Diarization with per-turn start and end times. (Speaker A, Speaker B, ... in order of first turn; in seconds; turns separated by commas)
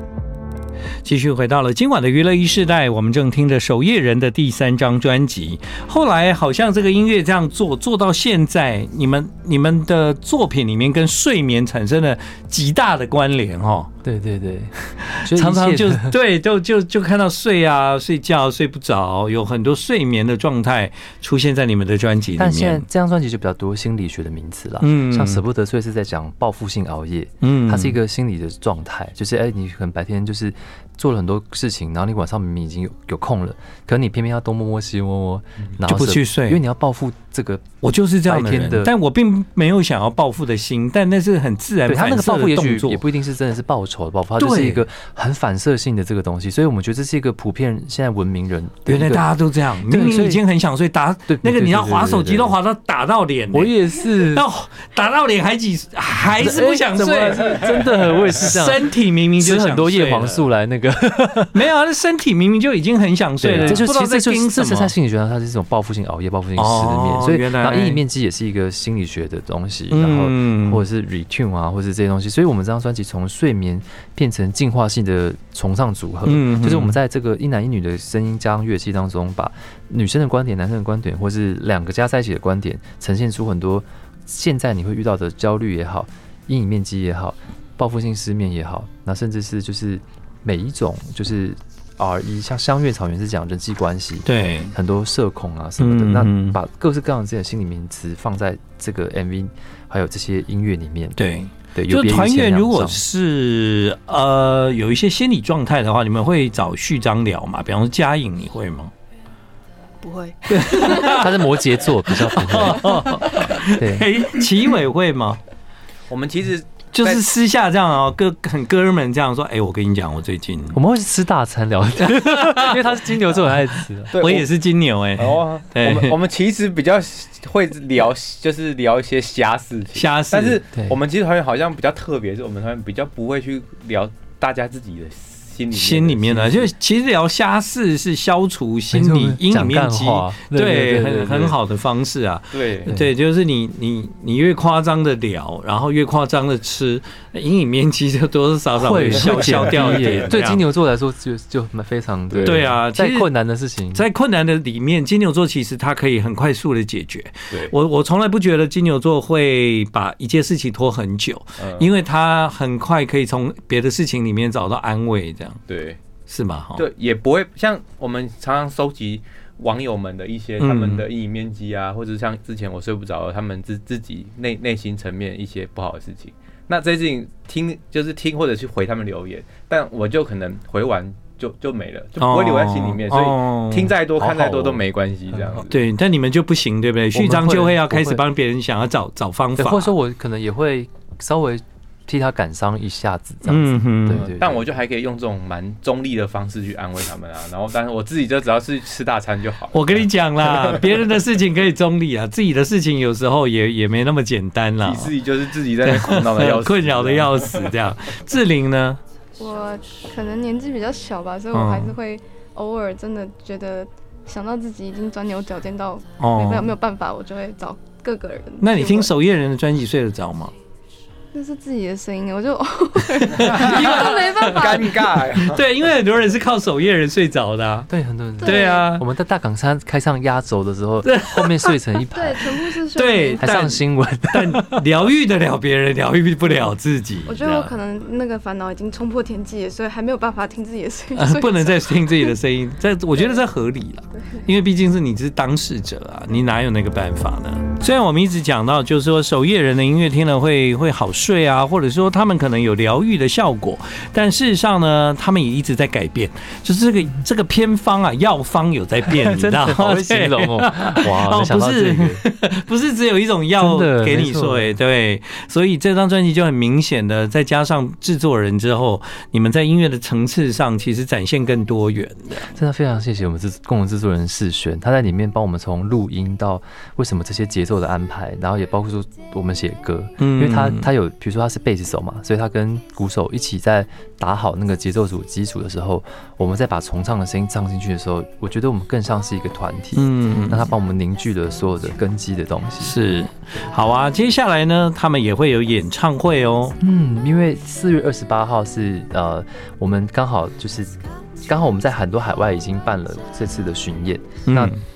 Speaker A: 1.0-13.9, Speaker B: 14.0-16.1, Speaker A: 15.1-22.9, Speaker B: 22.4-37.7, Speaker A: 24.8-25.4, Speaker A: 27.4-28.0, Speaker A: 35.8-36.6, Speaker A: 37.8-43.0, Speaker B: 38.2-38.9, Speaker B: 41.9-49.3, Speaker A: 44.4-44.8, Speaker A: 48.9-60.4, Speaker B: 49.8-50.4, Speaker B: 51.3-52.6, Speaker B: 53.5-54.4, Speaker B: 56.3-61.6, Speaker A: 61.5-64.9, Speaker B: 63.4-103.0, Speaker A: 66.5-68.0, Speaker A: 69.9-70.8, Speaker A: 76.2-77.0, Speaker A: 94.2-94.7, Speaker A: 95.8-96.6, Speaker A: 101.2-108.9, Speaker A: 110.5-115.4, Speaker B: 110.5-114.1, Speaker C: 116.1-117.2, Speaker A: 116.9-120.8, Speaker B: 120.7-124.1, Speaker A: 122.0-123.5, Speaker A: 124.1-126.2, Speaker C: 124.1-124.5, Speaker C: 125.2-136.7, Speaker A: 129.9-130.6, Speaker A: 135.7-150.6, Speaker B: 138.9-141.5, Speaker C: 142.5-142.9, Speaker B: 148.8-154.1, Speaker C: 149.3-150.3, Speaker C: 152.3-152.7, Speaker A: 152.4-153.3, Speaker A: 153.9-165.6, Speaker C: 161.6-161.9, Speaker C: 165.7-166.0, Speaker A: 166.3-166.9, Speaker C: 166.8-185.8, Speaker A: 170.6-171.1, Speaker A: 182.2-184.8, Speaker B: 185.3-185.6, Speaker A: 185.7-189.9, Speaker B: 187.1-188.2, Speaker B: 189.6-194.6, Speaker A: 193.4-194.3, Speaker C: 194.1-200.8, Speaker A: 199.7-205.1, Speaker C: 204.8-207.7, Speaker A: 205.8-209.0, Speaker D: 209.4-219.1, Speaker A: 211.5-211.9, Speaker A: 216.2-216.7, Speaker A: 218.6-220.5, Speaker D: 221.3-225.1, Speaker A: 223.1-227.9, Speaker C: 223.4-225.7, Speaker B: 227.9-232.5, Speaker D: 228.4-228.9, Speaker A: 228.4-229.0, Speaker A: 231.0-231.8, Speaker D: 232.1-233.6, Speaker A: 232.9-237.7, Speaker B: 233.4-234.8, Speaker D: 237.2-242.3, Speaker A: 241.1-272.5, Speaker D: 244.1-244.4, Speaker B: 259.1-262.2, Speaker B: 263.6-264.7, Speaker B: 272.5-292.9, Speaker A: 280.2-280.9, Speaker A: 289.9-290.7, Speaker A: 292.8-296.8, Speaker B: 296.8-300.9, Speaker B: 301.4-304.8, Speaker A: 304.5-304.8